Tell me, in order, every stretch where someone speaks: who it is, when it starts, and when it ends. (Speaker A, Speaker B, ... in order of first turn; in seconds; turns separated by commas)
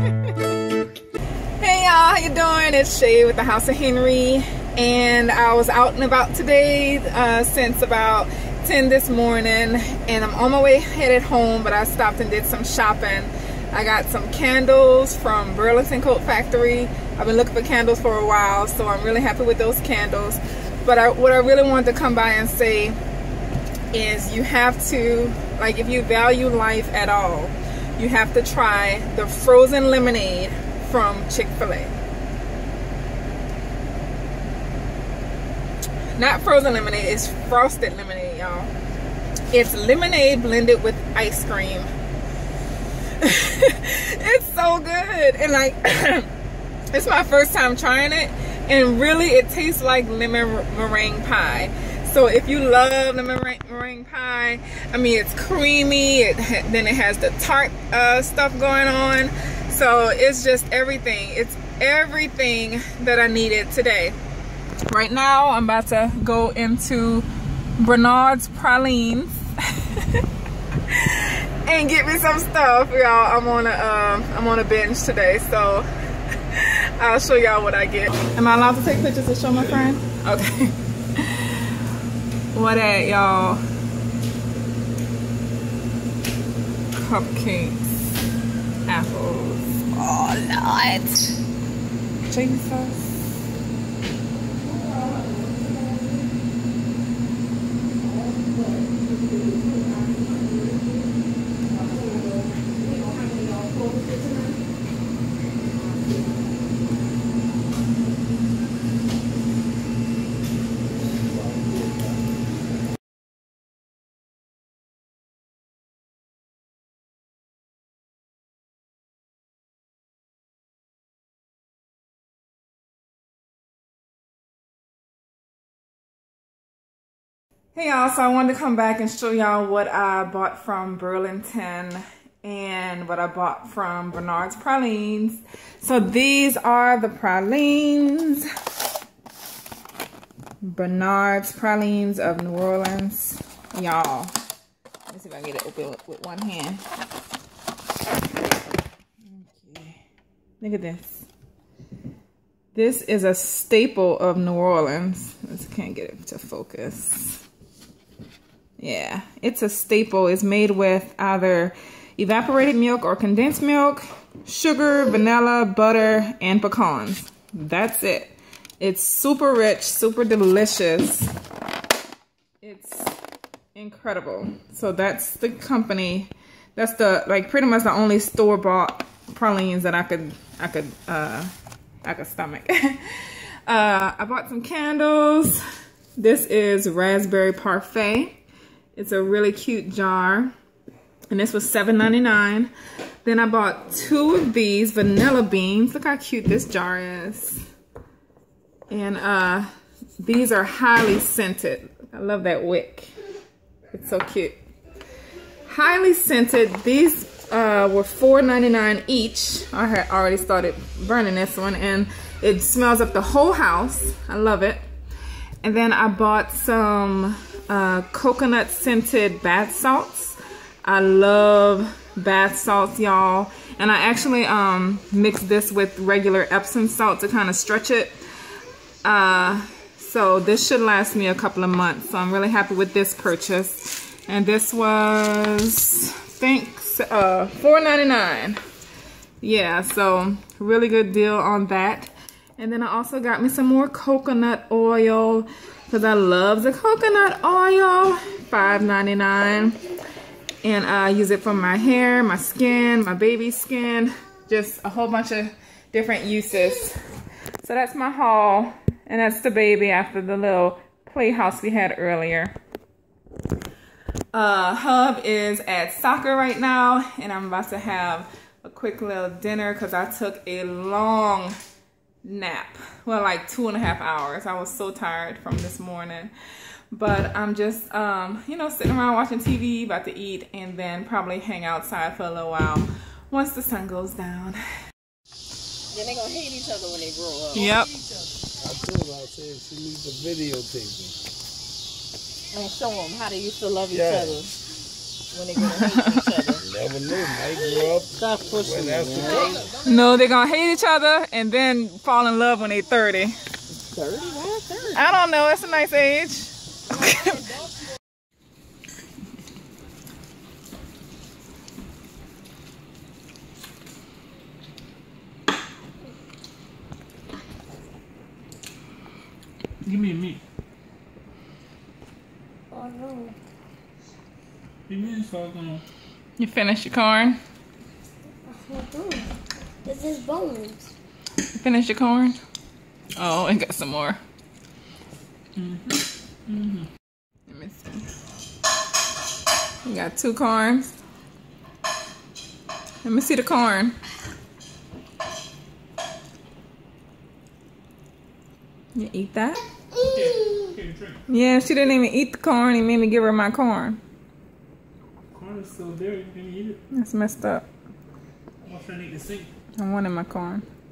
Speaker A: 1.6-23.0, Speaker A: 23.9-31.9, Speaker A: 36.2-38.7, Speaker A: 39.5-41.9, Speaker A: 43.2-46.3, Speaker A: 46.9-64.2, Speaker A: 64.9-67.3, Speaker A: 67.8-70.2, Speaker A: 70.9-75.9, Speaker A: 76.5-81.7, Speaker A: 82.5-83.6, Speaker A: 86.9-88.1, Speaker A: 88.9-91.4, Speaker A: 92.3-93.2, Speaker B: 94.6-96.2, Speaker B: 98.0-101.1, Speaker B: 101.7-104.2, Speaker C: 103.9-104.4, Speaker B: 105.8-106.6, Speaker A: 127.7-138.5, Speaker A: 140.6-144.3, Speaker A: 145.1-146.8, Speaker A: 149.2-150.0, Speaker A: 150.6-151.2, Speaker A: 152.7-157.4, Speaker A: 158.8-171.3, Speaker A: 172.6-173.2, Speaker A: 173.8-181.5, Speaker A: 182.1-185.6, Speaker A: 186.2-188.4, Speaker A: 188.9-190.5, Speaker A: 191.3-192.7, Speaker A: 193.2-197.6, Speaker A: 198.9-203.1, Speaker A: 203.9-204.6, Speaker A: 205.7-214.8, Speaker A: 215.6-228.1, Speaker A: 229.0-238.6, Speaker A: 239.4-249.8, Speaker A: 250.6-257.0, Speaker A: 257.6-262.6, Speaker A: 264.3-271.6, Speaker A: 272.2-276.3, Speaker A: 276.9-284.6, Speaker B: 285.9-287.7, Speaker A: 287.6-287.9, Speaker D: 288.6-291.2, Speaker B: 292.5-294.5, Speaker D: 293.9-294.4, Speaker B: 295.3-296.6, Speaker A: 295.6-296.3, Speaker D: 296.6-299.6, Speaker B: 298.2-299.6, Speaker A: 299.8-303.4, Speaker B: 303.8-305.0, Speaker A: 304.9-307.4, Speaker E: 319.8-320.4, Speaker C: 322.7-323.4, Speaker E: 324.9-325.8, Speaker A: 326.4-327.4, Speaker C: 328.5-329.3, Speaker C: 329.9-330.9, Speaker A: 331.5-332.4, Speaker A: 333.2-334.2, Speaker E: 335.6-336.9, Speaker A: 337.5-338.1, Speaker A: 339.8-340.9, Speaker A: 343.0-344.0, Speaker A: 348.9-349.6, Speaker E: 350.1-351.2, Speaker A: 351.3-354.0, Speaker E: 355.3-356.8, Speaker A: 356.9-357.7, Speaker E: 358.6-359.5, Speaker A: 359.8-360.6